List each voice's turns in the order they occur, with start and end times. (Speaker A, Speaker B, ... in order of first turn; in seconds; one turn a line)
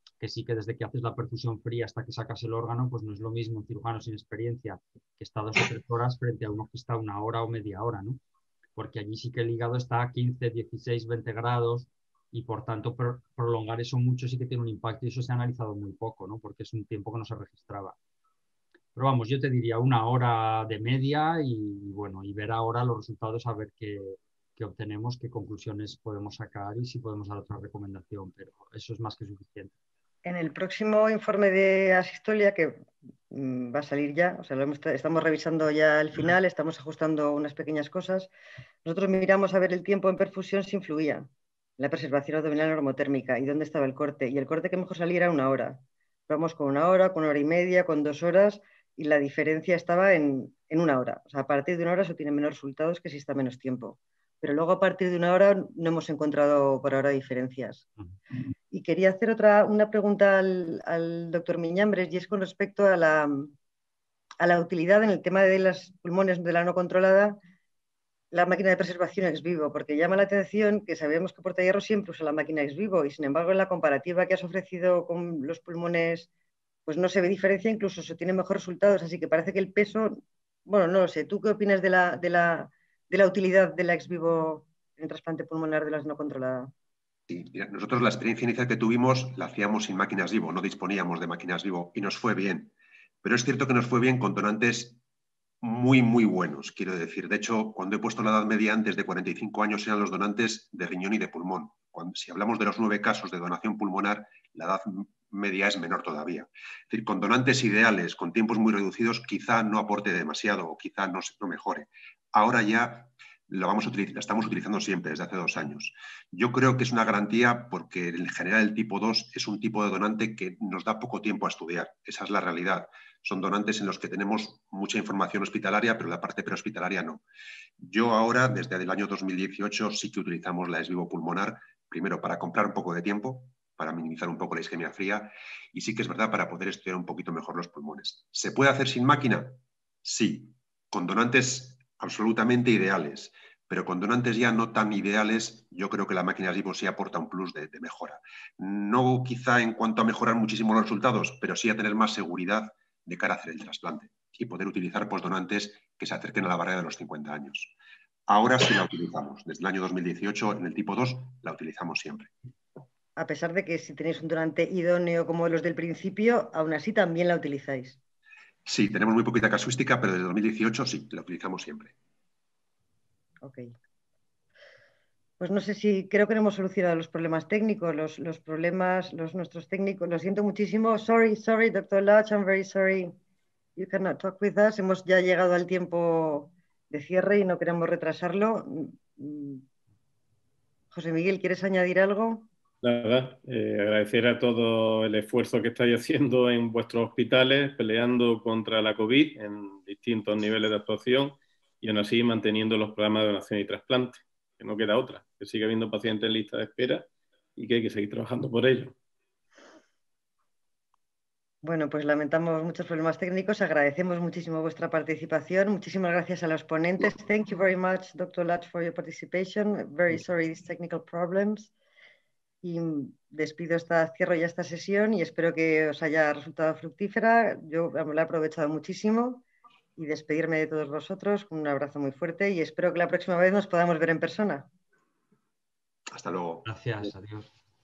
Speaker A: 0.2-8.2
Speaker A: 8.8-18.0
Speaker A: 18.9-29.7
Speaker B: 30.2-38.3
Speaker B: 38.9-57.9
Speaker B: 58.7-63.5
Speaker B: 64.4-67.4
Speaker B: 68.3-76.3
Speaker B: 76.9-86.7
Speaker C: 87.3-92.7
Speaker C: 93.2-95.0
Speaker C: 95.6-127.2
Speaker C: 127.8-157.7
Speaker C: 158.3-162.3
Speaker B: 163.2-168.0
Speaker C: 168.7-171.9
Speaker B: 173.4-173.7
Speaker B: 175.4-183.1
Speaker B: 183.8-189.6
Speaker B: 190.9-192.5
Speaker D: 192.8-208.9
Speaker B: 211.6-221.7
Speaker B: 222.6-229.4
Speaker B: 230.0-234.7
Speaker C: 236.1-236.7
Speaker A: 236.7-237.5